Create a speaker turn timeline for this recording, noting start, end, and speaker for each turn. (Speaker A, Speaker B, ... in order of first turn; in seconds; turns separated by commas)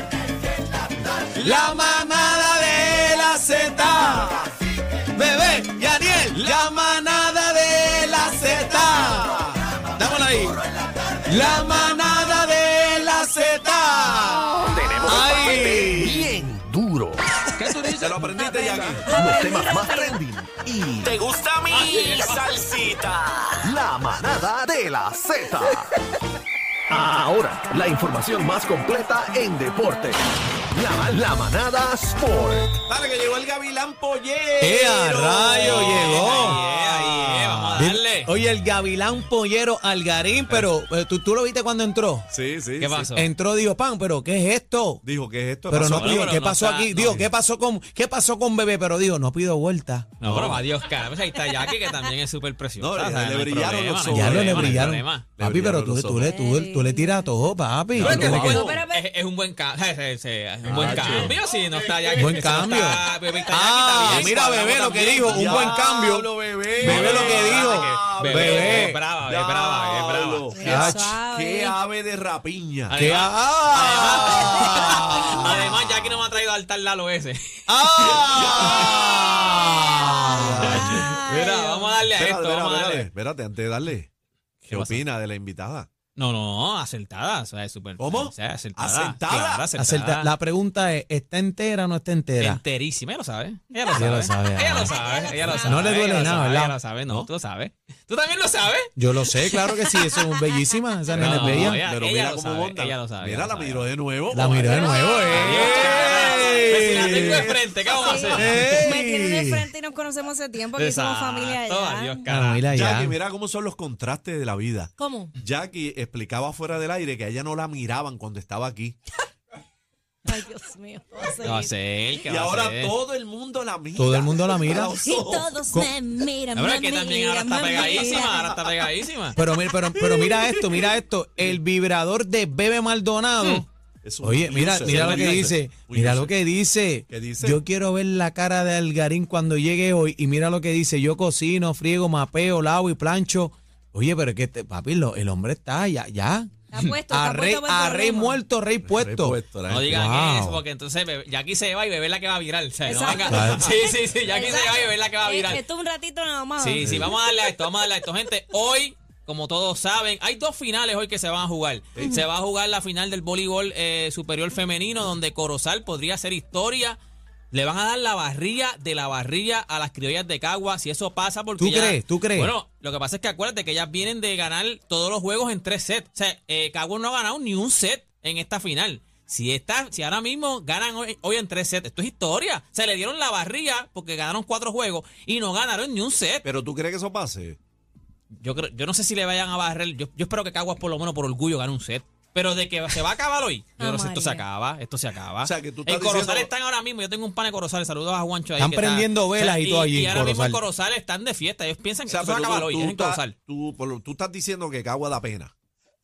Speaker A: 1.3-2.0, Speaker B: 1.4-4.4, Speaker A: 3.1-4.5, Speaker B: 5.0-9.4, Speaker A: 6.3-6.7, Speaker A: 8.7-9.6, Speaker B: 9.9-10.6, Speaker B: 11.2-16.3, Speaker C: 14.6-17.5, Speaker D: 17.6-18.3, Speaker A: 18.0-19.1, Speaker E: 18.3-20.2, Speaker C: 19.0-25.9, Speaker D: 21.7-22.8, Speaker C: 26.9-32.7, Speaker A: 32.9-36.6, Speaker B: 34.6-42.3, Speaker D: 35.6-38.3, Speaker A: 37.5-37.7, Speaker A: 42.3-43.1, Speaker D: 42.8-43.3, Speaker B: 43.1-45.0, Speaker A: 45.0-46.4, Speaker B: 45.7-50.1, Speaker D: 45.9-47.2, Speaker D: 50.2-55.3, Speaker A: 50.2-50.6, Speaker A: 52.8-56.3, Speaker B: 54.1-58.8, Speaker E: 56.2-57.3, Speaker A: 57.9-58.7, Speaker D: 58.0-65.7, Speaker E: 58.3-59.0, Speaker A: 60.7-61.4, Speaker B: 60.7-61.3, Speaker B: 62.2-69.0, Speaker A: 64.0-73.2, Speaker D: 66.8-70.9, Speaker E: 70.5-71.8, Speaker B: 70.6-71.1, Speaker D: 72.9-79.0, Speaker B: 72.9-75.6, Speaker A: 73.7-74.6, Speaker E: 74.4-74.8, Speaker E: 75.3-75.7, Speaker B: 77.7-81.0, Speaker A: 78.3-79.3, Speaker E: 79.0-82.0, Speaker A: 80.3-81.1, Speaker D: 80.6-83.1, Speaker A: 82.1-84.1, Speaker D: 84.6-85.0, Speaker A: 84.7-85.9, Speaker D: 86.2-90.3, Speaker A: 88.0-89.7, Speaker B: 89.3-92.6, Speaker D: 92.4-100.1, Speaker E: 93.8-94.3, Speaker B: 94.0-94.9, Speaker E: 94.8-95.9, Speaker B: 95.5-96.8, Speaker A: 95.5-96.4, Speaker B: 99.0-101.8, Speaker D: 101.1-103.9, Speaker A: 101.2-107.7, Speaker B: 104.3-107.5, Speaker E: 104.5-106.7, Speaker D: 105.3-108.7, Speaker E: 107.9-112.2, Speaker B: 108.3-109.7, Speaker D: 110.7-112.6, Speaker B: 112.3-113.2, Speaker A: 112.7-119.0, Speaker E: 115.0-115.3, Speaker E: 120.2-121.7, Speaker D: 121.4-122.9, Speaker A: 122.2-125.5, Speaker B: 123.9-125.0, Speaker E: 125.0-128.6, Speaker D: 126.5-129.4, Speaker B: 129.3-133.7, Speaker A: 134.0-136.3, Speaker B: 134.2-146.5, Speaker D: 134.8-135.5, Speaker A: 137.1-137.6, Speaker E: 146.7-148.4, Speaker B: 147.1-150.6, Speaker A: 148.8-149.9, Speaker D: 149.7-155.6, Speaker E: 152.8-157.3, Speaker B: 153.3-153.7, Speaker D: 156.6-167.0, Speaker A: 156.8-157.1, Speaker D: 167.5-186.4, Speaker B: 171.6-172.5, Speaker A: 186.4-187.6, Speaker D: 188.4-203.3, Speaker E: 193.8-194.4, Speaker A: 195.4-196.5, Speaker B: 198.6-200.6, Speaker A: 202.1-205.5